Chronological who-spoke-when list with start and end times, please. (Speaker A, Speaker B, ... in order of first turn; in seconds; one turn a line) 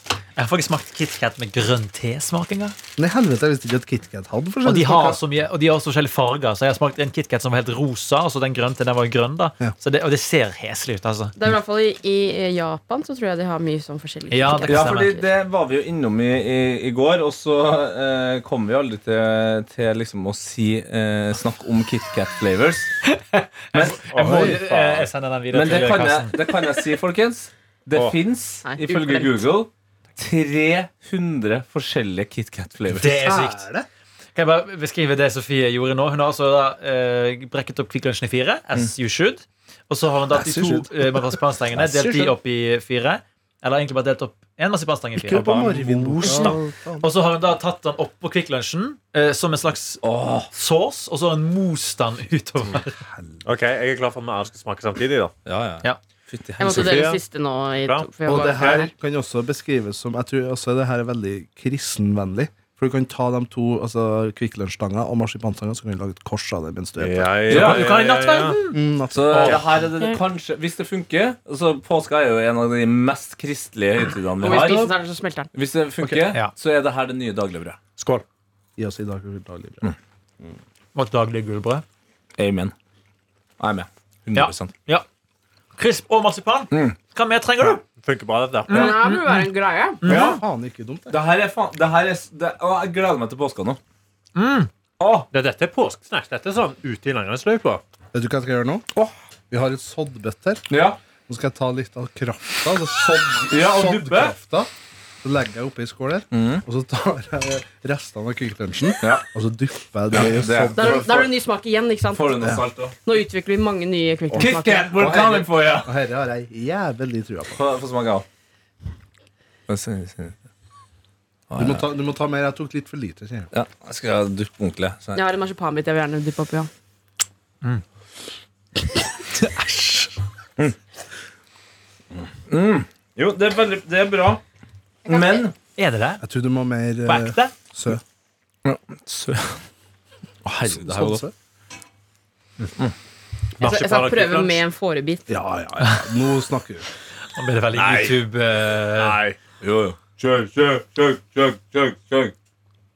Speaker A: 0.4-2.8
Speaker B: 3.0-5.2
Speaker A: 4.6-11.3
Speaker C: 11.3-15.3
Speaker A: 14.3-15.1
Speaker D: 14.7-23.0
Speaker A: 23.0-26.8
Speaker D: 23.7-33.1
Speaker E: 24.1-25.0
Speaker B: 24.2-24.6
Speaker C: 28.6-29.5
Speaker A: 32.9-33.7
Speaker B: 33.0-33.9
Speaker A: 34.3-53.0
Speaker B: 40.3-42.3
Speaker B: 45.2-47.1
Speaker D: 50.0-50.5
Speaker B: 53.1-53.4
Speaker E: 53.4-55.3
Speaker D: 55.5-57.0
Speaker C: 56.6-58.9
Speaker E: 56.7-57.2
Speaker E: 57.8-58.8
Speaker B: 58.3-67.3
Speaker E: 67.0-68.6
Speaker D: 67.5-67.9
Speaker A: 67.5-68.8
Speaker B: 68.7-69.8
Speaker D: 69.1-74.9
Speaker A: 69.3-69.6
Speaker C: 74.4-75.5
Speaker B: 74.5-74.9
Speaker D: 75.5-77.8
Speaker E: 78.0-78.2
Speaker B: 78.8-79.9
Speaker A: 80.9-81.8
Speaker D: 82.4-82.7
Speaker D: 83.6-84.7
Speaker A: 84.3-85.0
Speaker A: 85.8-87.8
Speaker D: 86.7-87.0
Speaker E: 87.7-88.9
Speaker A: 88.7-89.5
Speaker C: 88.7-90.0
Speaker A: 90.0-90.4
Speaker D: 90.0-90.4
Speaker B: 90.0-91.2
Speaker D: 91.1-93.8
Speaker A: 94.3-94.7
Speaker D: 95.0-95.3
Speaker E: 95.3-97.8
Speaker B: 98.1-100.7
Speaker D: 100.7-101.0
Speaker B: 101.3-104.7
Speaker D: 103.5-104.3
Speaker B: 105.2-111.1
Speaker D: 106.3-106.6
Speaker D: 109.0-109.2
Speaker D: 110.1-111.3
Speaker C: 110.8-115.0
Speaker D: 112.1-113.0
Speaker B: 114.3-117.6
Speaker D: 114.3-115.9
Speaker D: 117.5-118.2
Speaker D: 119.7-120.3
Speaker D: 121.5-121.8
Speaker B: 121.6-123.5
Speaker D: 123.5-125.2
Speaker C: 125.1-126.7
Speaker A: 129.5-130.1
Speaker D: 132.5-134.4
Speaker C: 135.1-135.4
Speaker D: 135.1-135.5
Speaker A: 135.8-136.2
Speaker B: 136.2-138.0
Speaker A: 137.1-137.5
Speaker D: 138.6-139.6
Speaker D: 140.4-141.2
Speaker B: 140.6-141.3
Speaker E: 143.6-144.6
Speaker C: 143.6-145.3
Speaker B: 145.3-146.8
Speaker A: 145.8-146.1
Speaker A: 147.3-149.2
Speaker E: 147.7-148.2
Speaker E: 148.9-149.4
Speaker D: 149.6-152.3